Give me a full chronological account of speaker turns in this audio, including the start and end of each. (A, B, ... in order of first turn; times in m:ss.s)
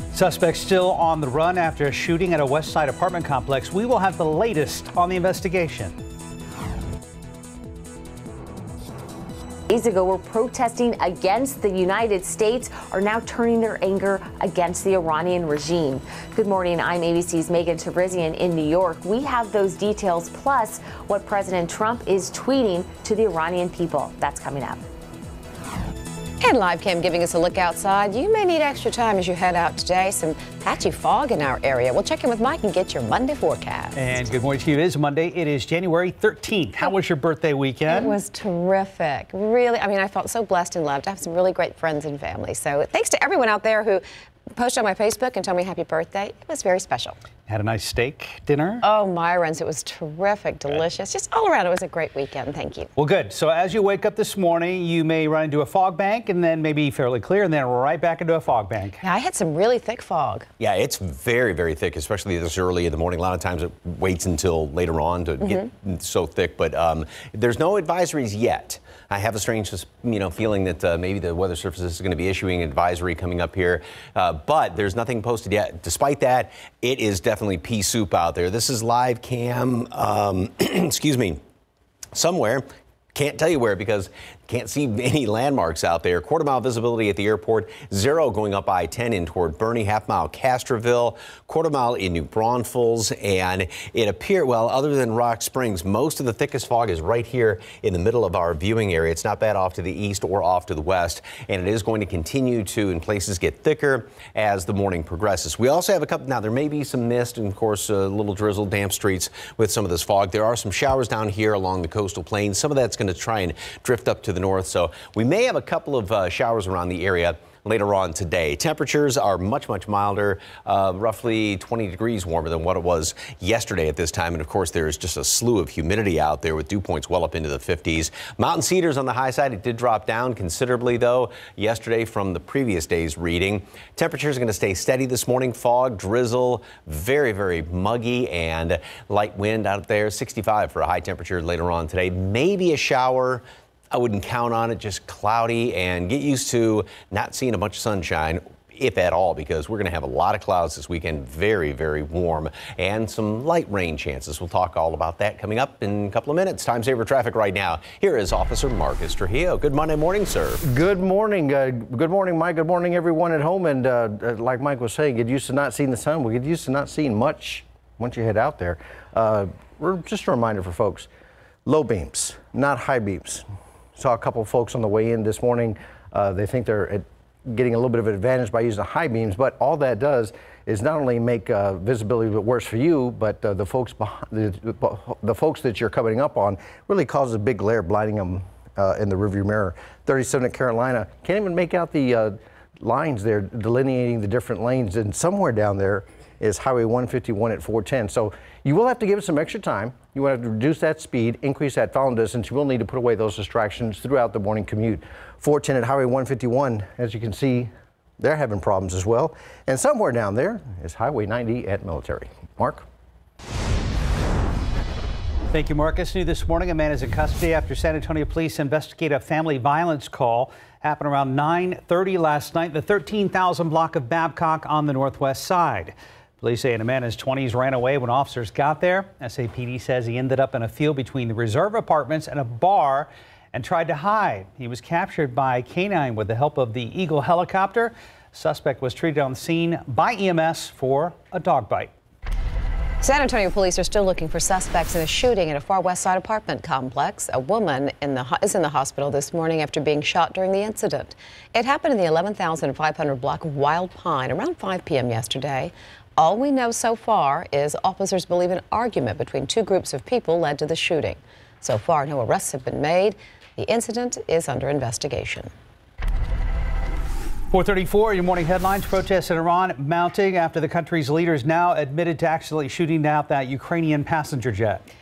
0:00.1-0:05.9 A
0:09.7-0:24.8 B
0:26.4-0:34.0 C
0:34.0-0:38.1 A
0:37.9-0:44.0 C
0:44.5-0:47.2 C
0:47.5-0:48.8 A
0:48.8-0:52.9 C
0:53.0-0:59.0 A
0:59.0-1:00.5 C
1:00.6-1:21.4 D
1:22.1-2:40.6 D
2:40.6-2:51.1 E
2:51.6-3:32.8 E
3:35.5-4:01.9 A
4:03.0-4:25.5 C
4:27.5-4:34.9 A